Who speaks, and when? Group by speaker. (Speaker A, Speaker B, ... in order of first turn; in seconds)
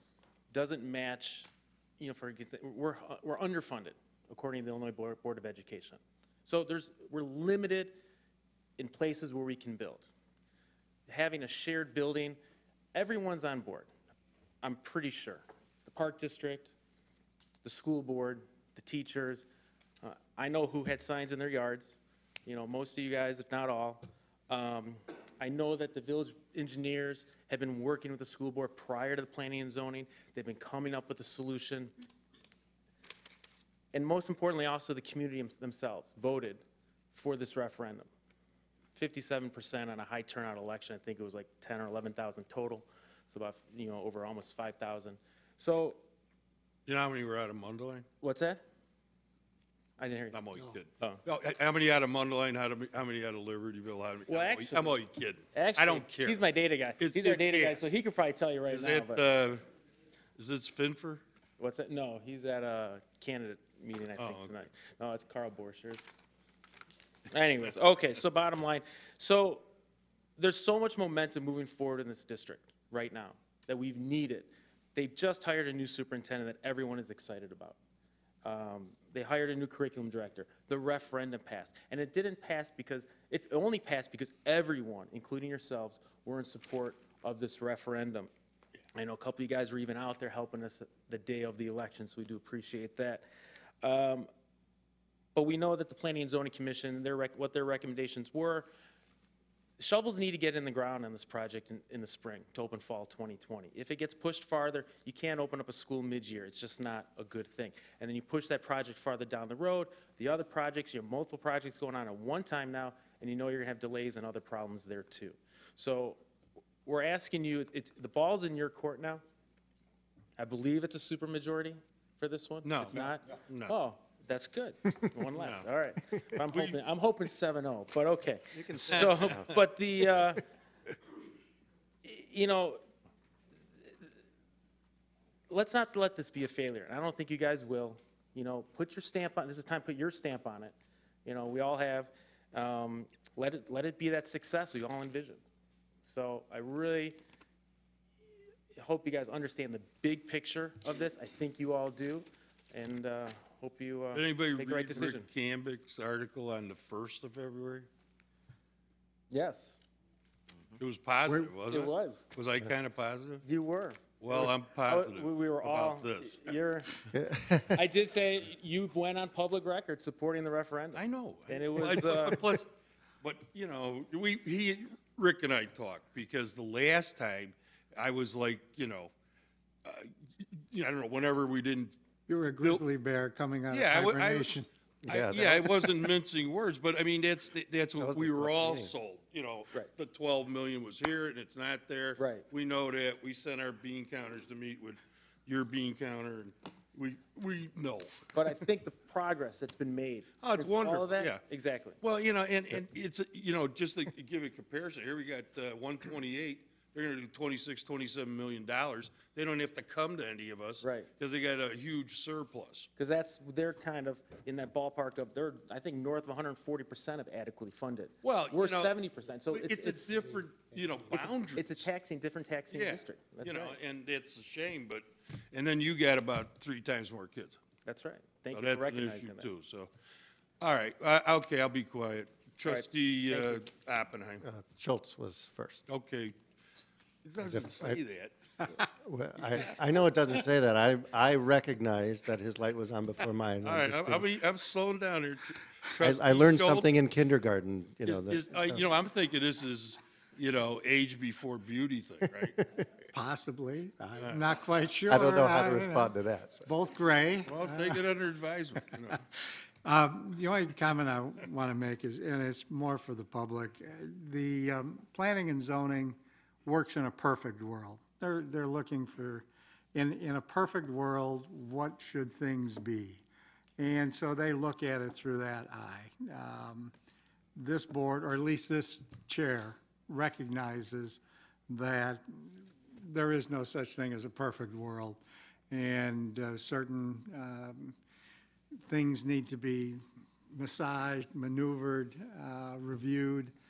Speaker A: 0.5-8.0, 8.8-10.1, 11.1-12.4, 12.9-13.9, 14.6-16.8, 17.6-19.4, 20.0-31.9, 33.9-36.6, 37.1-38.1, 38.9-46.0, 48.2-48.6, 50.0-50.4, 54.3-55.0, 55.5-59.2, 61.6-66.1, 67.3-69.6, 70.4-77.8, 78.4-88.3, 88.9-93.2, 93.8-94.3, 95.3-98.7, 99.8-116.2, 116.8-119.2, 120.4-130.4, 132.0-132.8, 135.5-145.4, 146.0-147.2, 148.7-155.3, 159.3-159.8, 161.6-162.2, 163.4-167.0, 167.7-172.5, 192.2-192.4, 198.3-202.0, 210.8-211.1, 213.0-220.4, 221.1-223.8, 227.8-229.5, 232.6-233.6
Speaker B: 46.9-48.0, 50.3-56.4, 57.0-57.9, 58.7-59.6, 60.4-61.2, 64.2-64.5, 122.6-123.7, 125.3-125.7, 126.5-126.8, 128.7-129.5, 154.1-157.9, 160.8-163.4, 164.2-166.5, 170.9-172.7, 173.2-179.1, 179.8-181.9, 183.7-198.3, 200.4-201.4, 202.0-212.9, 218.2-218.9, 219.5-221.9, 222.7-227.6, 228.5-229.9, 230.6-234.4, 235.9-236.3, 237.2-238.3, 243.6-246.9, 248.0-252.6, 254.2-254.4, 257.5-259.2
Speaker C: 128.7-129.5, 167.1-167.8, 185.0-185.9, 188.0-188.9, 234.4-235.9, 237.4-238.0, 238.7-244.4, 246.0-248.8, 252.4-252.9, 255.1-256.7
Speaker D: 161.3-161.5, 182.3-184.7, 253.1-256.1, 256.6-258.0, 259.8-273.2, 273.8-276.9, 277.6-288.0, 288.8-293.5